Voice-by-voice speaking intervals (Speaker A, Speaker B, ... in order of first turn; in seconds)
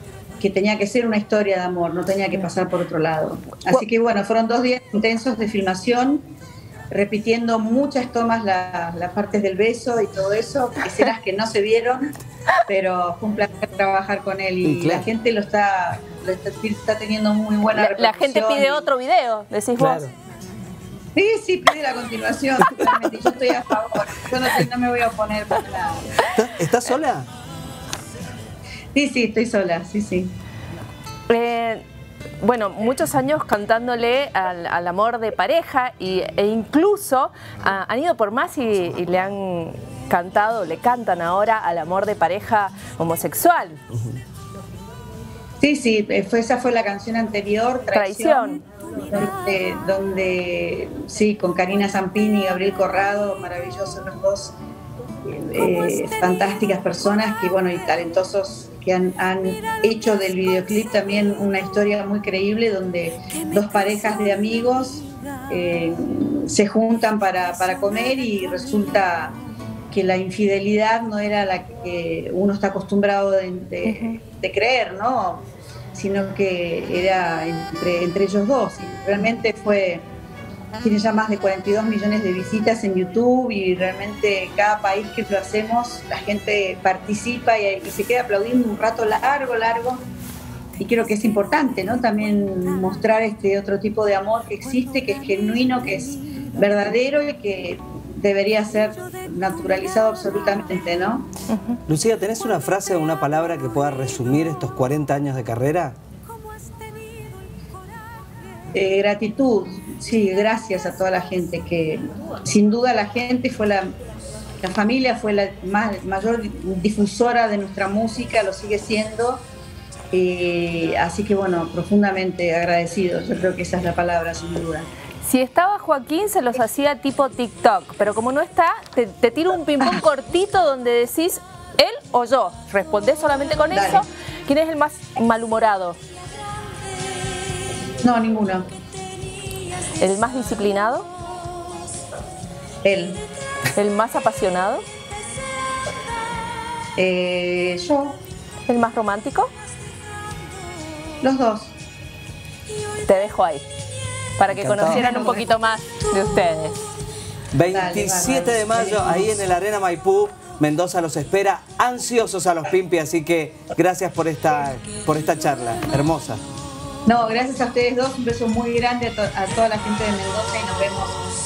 Speaker A: 0.4-6.2, 6.9-12.1, 12.7-18.9, 21.1-26.1, 28.9-30.3, 45.6-54.5, 55.2-69.4, 69.9-80.0, 80.8-90.0, 90.8-101.3, 108.7-113.9, 114.6-119.4, 120.1-124.9, 133.7-134.0, 138.0-138.7, 142.8-143.2, 146.9-148.2, 151.2-151.8, 154.9-155.5, 157.7-159.3, 167.1-171.2
Speaker B: 14.6-15.1, 19.8-20.1, 26.3-27.3, 101.9-106.0, 154.5-155.1, 157.5-166.4
Speaker C: 17.7-20.1, 31.3-31.8, 32.4-43.8, 47.9-48.6, 73.8-74.2, 101.5-101.8, 125.2-136.0, 139.9-141.1, 143.7-144.8, 148.7-149.5, 153.1-153.6, 154.4-156.8